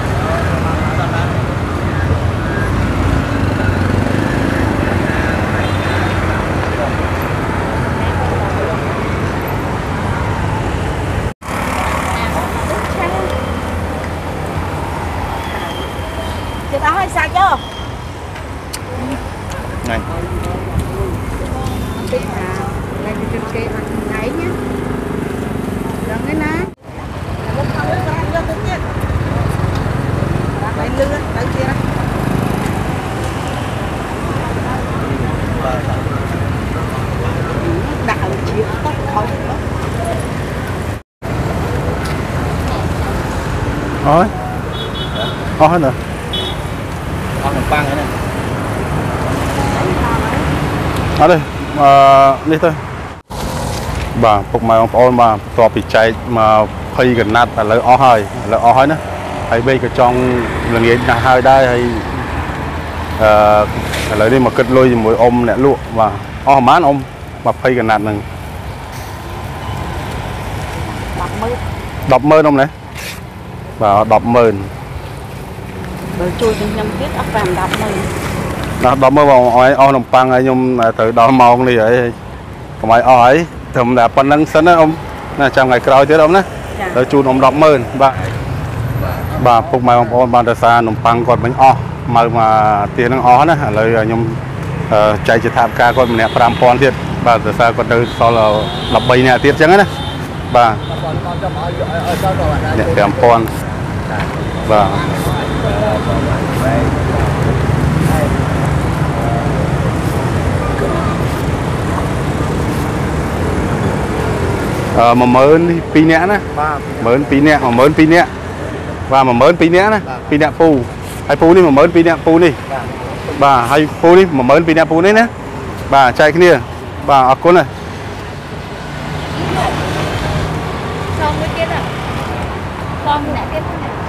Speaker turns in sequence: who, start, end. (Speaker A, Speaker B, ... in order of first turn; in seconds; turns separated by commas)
Speaker A: 12.3-13.3, Speaker A: 15.5-15.9, Speaker A: 16.7-17.6, Speaker B: 18.9-19.2, Speaker A: 21.9-24.6, Speaker A: 26.0-26.7, Speaker A: 27.4-28.8, Speaker A: 30.5-31.8, Speaker B: 35.5-36.0, Speaker A: 37.6-39.6, Speaker C: 44.0-44.3, Speaker C: 45.6-46.0, Speaker B: 47.4-48.1, Speaker A: 49.7-50.5, Speaker C: 51.1-52.8, Speaker C: 54.1-62.2, Speaker C: 63.2-68.2, Speaker A: 71.1-71.6, Speaker C: 72.0-72.7, Speaker C: 73.8-74.7, Speaker A: 76.2-78.1, Speaker C: 78.8-82.1, Speaker C: 82.8-88.2, Speaker C: 89.3-94.4, Speaker C: 94.9-99.9, Speaker C: 100.5-100.8, Speaker B: 100.9-103.2, Speaker C: 102.7-103.5, Speaker B: 104.0-107.2, Speaker C: 104.7-105.0, Speaker C: 114.9-116.5, Speaker B: 116.6-117.5, Speaker C: 117.0-118.3, Speaker C: 119.1-122.6, Speaker B: 122.8-123.0, Speaker C: 123.3-125.3, Speaker C: 125.9-127.7, Speaker A: 131.2-131.7, Speaker A: 133.0-133.9